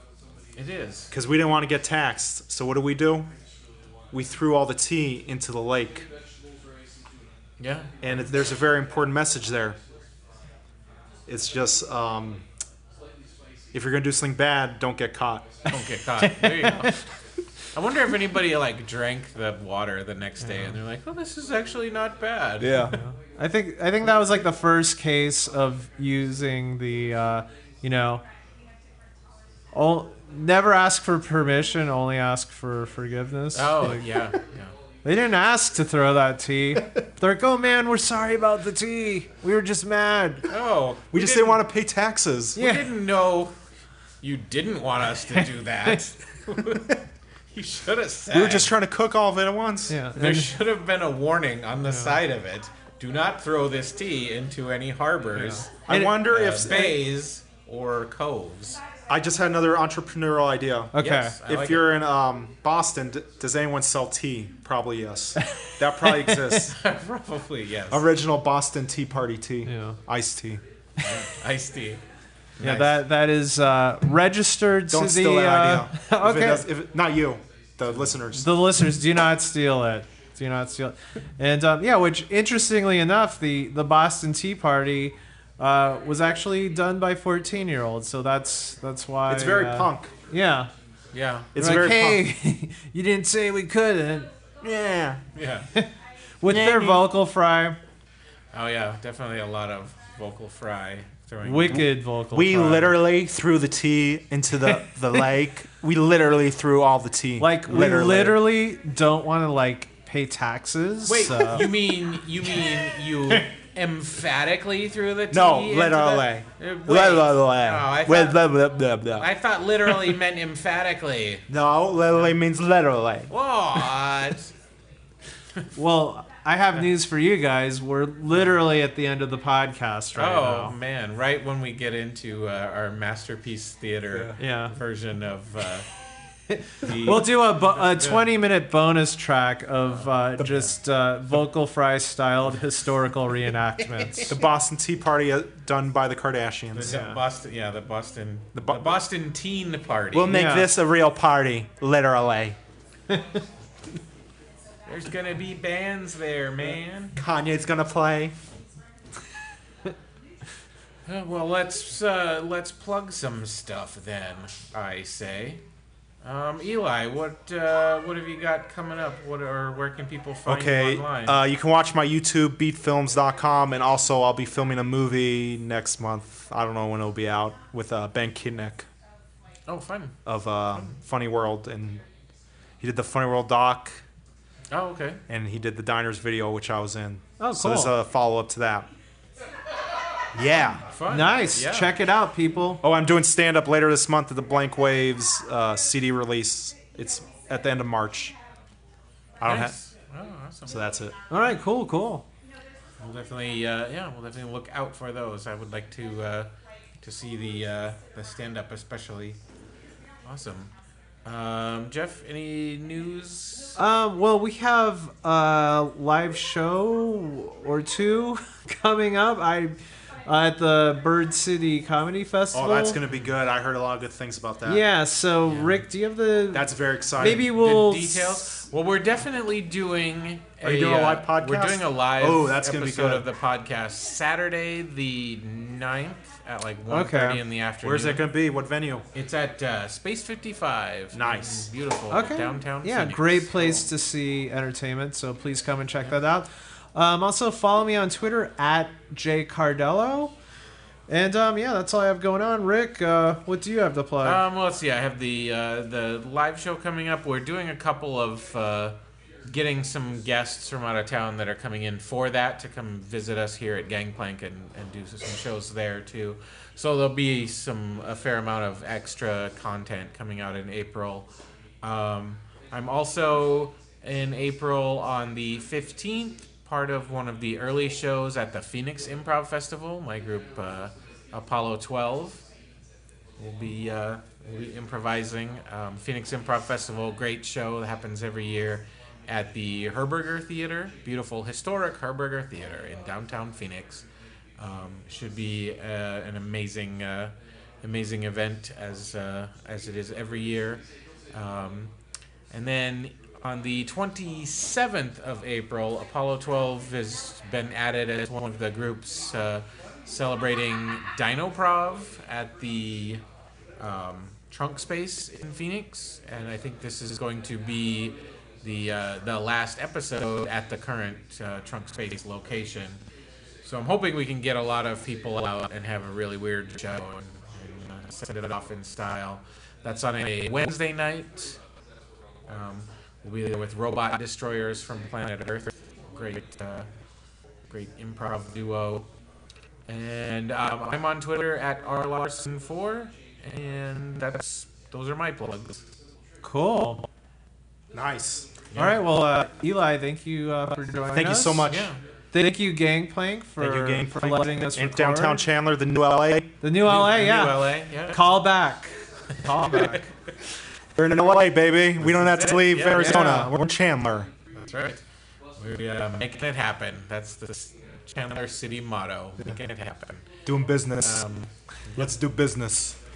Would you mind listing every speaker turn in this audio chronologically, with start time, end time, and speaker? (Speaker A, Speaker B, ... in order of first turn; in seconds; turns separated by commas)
Speaker A: 0.5-1.1, Speaker B: 1.1-3.3, Speaker B: 4.1-6.1, Speaker A: 7.6-8.1, Speaker B: 8.0-9.8, Speaker B: 11.3-12.4, Speaker B: 13.7-15.5, Speaker C: 15.6-17.1, Speaker A: 15.7-17.1, Speaker A: 17.7-23.0, Speaker B: 22.6-23.0, Speaker C: 22.8-28.2, Speaker C: 29.7-34.2, Speaker A: 33.5-34.7, Speaker C: 35.0-40.5, Speaker A: 40.5-41.6, Speaker B: 41.1-42.7, Speaker C: 42.5-42.9, Speaker A: 42.5-43.5, Speaker A: 44.2-47.0, Speaker A: 47.5-48.7, Speaker B: 48.3-50.0, Speaker C: 49.9-50.5, Speaker A: 50.1-58.8, Speaker C: 55.4-56.3, Speaker B: 55.9-57.0, Speaker B: 59.1-66.8, Speaker C: 60.9-61.4, Speaker A: 61.0-61.9, Speaker C: 65.4-66.7, Speaker A: 66.7-68.0, Speaker B: 67.9-70.6, Speaker C: 69.6-70.0, Speaker A: 71.0-72.0, Speaker B: 72.6-73.0, Speaker C: 72.6-76.7, Speaker B: 74.9-78.5, Speaker C: 78.3-90.7, Speaker B: 89.3-90.1, Speaker A: 91.1-91.8, Speaker B: 91.5-92.2, Speaker C: 91.5-94.3, Speaker B: 94.6-95.2, Speaker A: 95.3-95.7, Speaker C: 95.7-97.8, Speaker B: 96.5-97.1, Speaker A: 98.5-101.9, Speaker C: 101.4-103.0, Speaker B: 102.3-108.5, Speaker C: 107.4-111.7, Speaker A: 111.1-118.5, Speaker B: 115.3-119.3, Speaker A: 119.2-121.5, Speaker B: 121.5-123.3, Speaker A: 123.3-124.5, Speaker C: 125.7-130.8, Speaker A: 130.2-135.9, Speaker B: 134.1-134.4, Speaker C: 134.4-134.7, Speaker C: 136.5-144.3, Speaker A: 136.8-138.3, Speaker A: 139.9-140.6, Speaker B: 144.3-147.0, Speaker A: 146.7-150.3, Speaker C: 146.8-147.2, Speaker B: 148.5-148.9, Speaker B: 150.1-152.6, Speaker C: 150.3-150.7, Speaker C: 153.1-153.4, Speaker A: 154.8-157.2, Speaker B: 157.2-158.3, Speaker A: 161.1-165.6, Speaker A: 166.2-171.4, Speaker B: 170.4-178.9, Speaker A: 179.7-180.2, Speaker B: 180.2-182.0, Speaker B: 182.8-184.0, Speaker A: 184.7-185.2, Speaker B: 185.3-188.9, Speaker C: 187.4-187.9, Speaker B: 190.3-190.8, Speaker A: 190.8-192.0, Speaker C: 191.1-192.8, Speaker B: 192.8-198.3, Speaker B: 199.4-199.8, Speaker A: 199.4-200.8, Speaker B: 200.7-201.1, Speaker C: 201.3-202.2, Speaker A: 203.0-209.4, Speaker A: 210.2-210.7, Speaker A: 211.2-213.8, Speaker C: 213.8-223.0, Speaker B: 222.5-224.8, Speaker A: 223.0-223.3, Speaker C: 224.6-228.6, Speaker A: 225.4-225.8, Speaker B: 226.5-227.4, Speaker A: 227.2-238.3, Speaker B: 230.6-233.3, Speaker C: 236.9-237.4, Speaker B: 237.8-239.0, Speaker A: 239.1-243.9, Speaker B: 241.1-241.7, Speaker C: 242.1-250.3, Speaker C: 251.1-254.4, Speaker A: 254.2-271.3, Speaker A: 271.8-282.4, Speaker A: 283.4-294.0, Speaker A: 294.6-301.9, Speaker A: 302.5-313.2, Speaker A: 313.8-323.0, Speaker A: 323.6-331.6, Speaker A: 332.5-336.9, Speaker A: 337.7-339.1, Speaker A: 339.9-345.9, Speaker C: 346.4-347.1, Speaker B: 347.9-348.6, Speaker A: 348.7-349.0, Speaker C: 348.7-351.7, Speaker B: 351.1-351.9, Speaker A: 351.7-352.0, Speaker C: 352.3-355.4, Speaker B: 353.6-356.5, Speaker C: 356.6-360.1, Speaker A: 356.8-358.3, Speaker A: 359.4-360.1, Speaker B: 360.9-364.3, Speaker A: 362.0-363.5, Speaker C: 362.9-363.5, Speaker A: 364.5-365.0, Speaker A: 365.6-370.4, Speaker B: 370.4-371.3, Speaker A: 371.0-372.1, Speaker B: 371.9-373.0